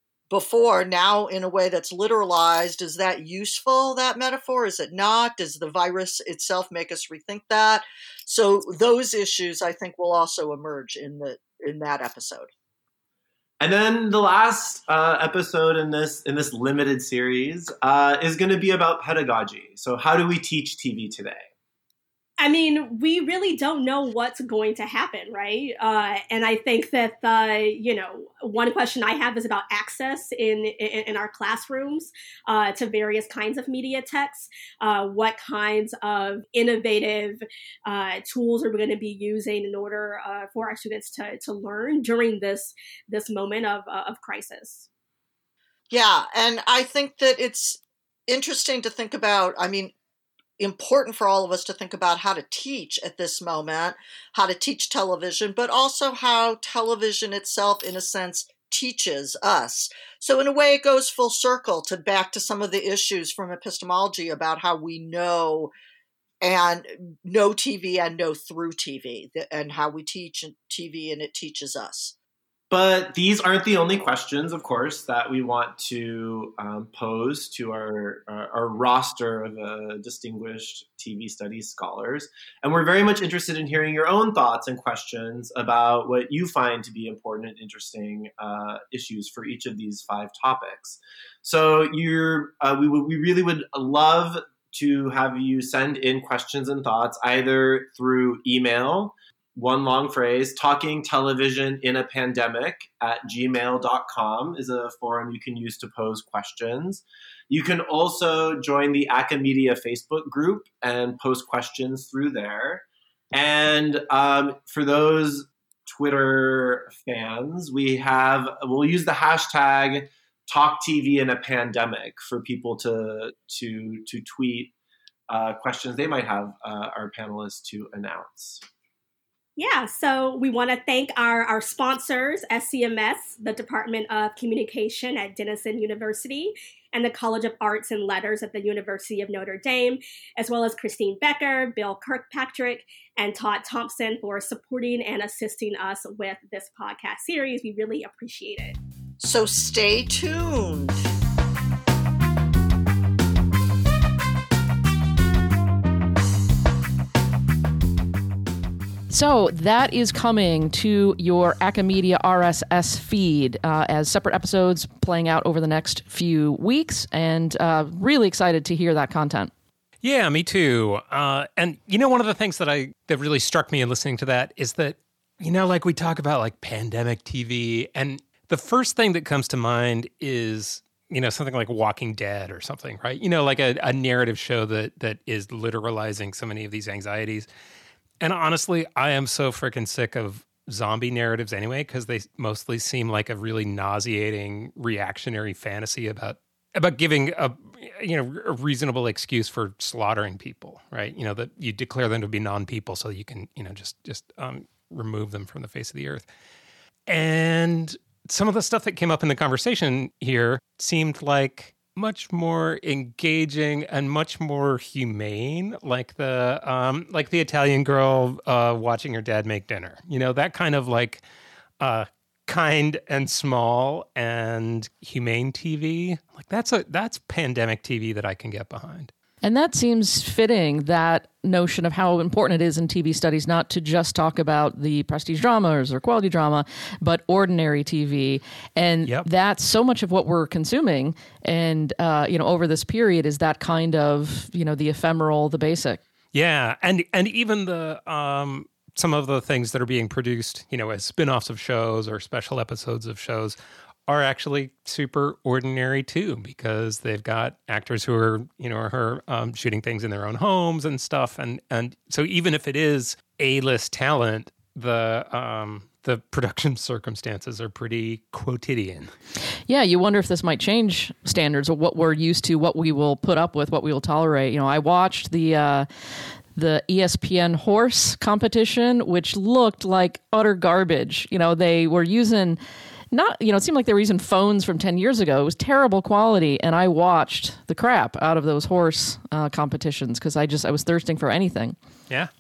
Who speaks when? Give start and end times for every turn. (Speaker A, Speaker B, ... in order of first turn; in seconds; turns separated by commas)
Speaker A: 0.3-12.5, Speaker B: 13.6-21.5, Speaker C: 22.4-44.9, Speaker A: 45.9-49.9, Speaker A: 50.6-65.7, Speaker A: 66.4-72.1, Speaker B: 72.7-124.7, Speaker B: 125.3-128.6, Speaker C: 129.6-148.8, Speaker A: 149.2-151.1, Speaker D: 159.1-169.5, Speaker E: 170.0-187.5, Speaker E: 188.2-206.3, Speaker E: 207.1-221.2, Speaker E: 221.8-229.1, Speaker D: 229.4-246.0, Speaker E: 246.3-269.1, Speaker D: 269.7-275.9, Speaker D: 276.6-282.6, Speaker D: 283.1-291.8